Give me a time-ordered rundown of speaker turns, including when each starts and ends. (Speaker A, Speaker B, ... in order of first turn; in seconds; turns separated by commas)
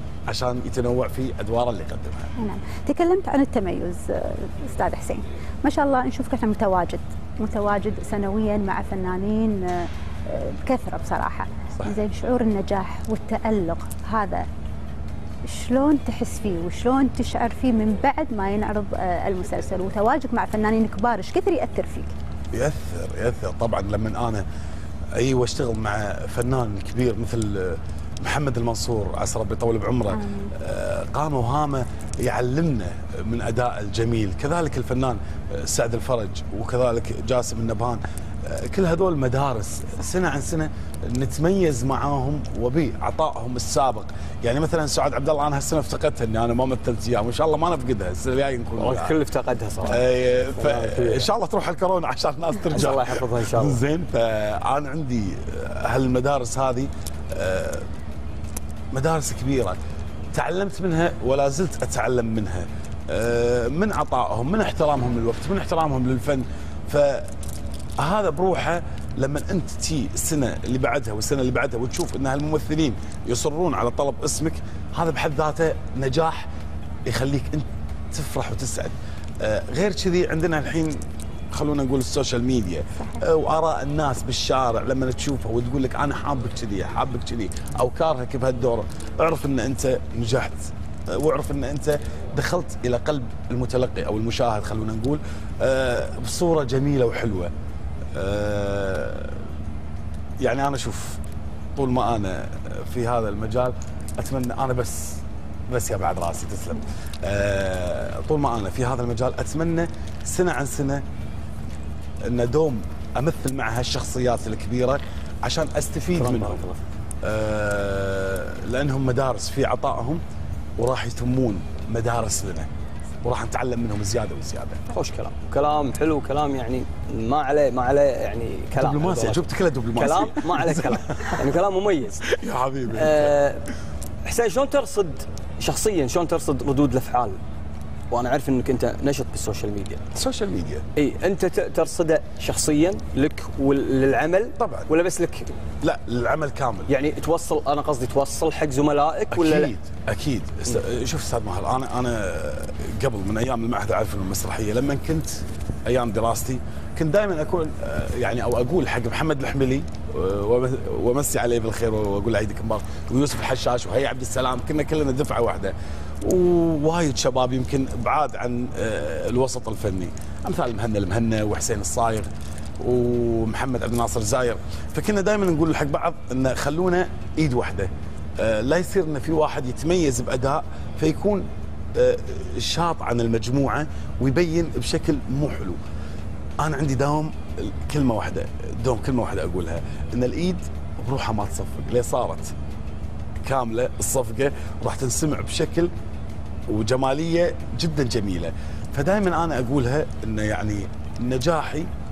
Speaker A: 0.3-2.3, Speaker B: 2.4-14.5, Speaker B: 15.4-22.1, Speaker A: 22.5-24.4, Speaker A: 25.1-49.1, Speaker B: 30.1-30.5, Speaker C: 48.8-50.0, Speaker A: 49.8-57.9, Speaker C: 50.5-51.3, Speaker C: 52.7-53.8, Speaker A: 58.9-59.8, Speaker A: 60.3-67.3, Speaker A: 68.0-76.5, Speaker A: 77.1-81.0, Speaker A: 81.5-97.5, Speaker A: 98.1-99.4, Speaker A: 100.4-101.2, Speaker A: 101.8-111.0, Speaker A: 112.2-116.6, Speaker C: 116.2-116.8, Speaker A: 117.2-120.2, Speaker A: 120.8-122.7, Speaker A: 123.2-124.8, Speaker C: 124.9-132.3, Speaker A: 128.7-131.4, Speaker A: 132.3-133.4, Speaker C: 132.9-133.7, Speaker C: 134.2-137.4, Speaker C: 138.1-140.0, Speaker A: 140.1-140.8, Speaker C: 140.9-145.5, Speaker A: 144.6-144.9, Speaker A: 145.8-146.9, Speaker C: 146.9-149.7, Speaker A: 149.3-185.8, Speaker A: 186.6-192.5, Speaker A: 193.4-195.9, Speaker A: 196.7-201.9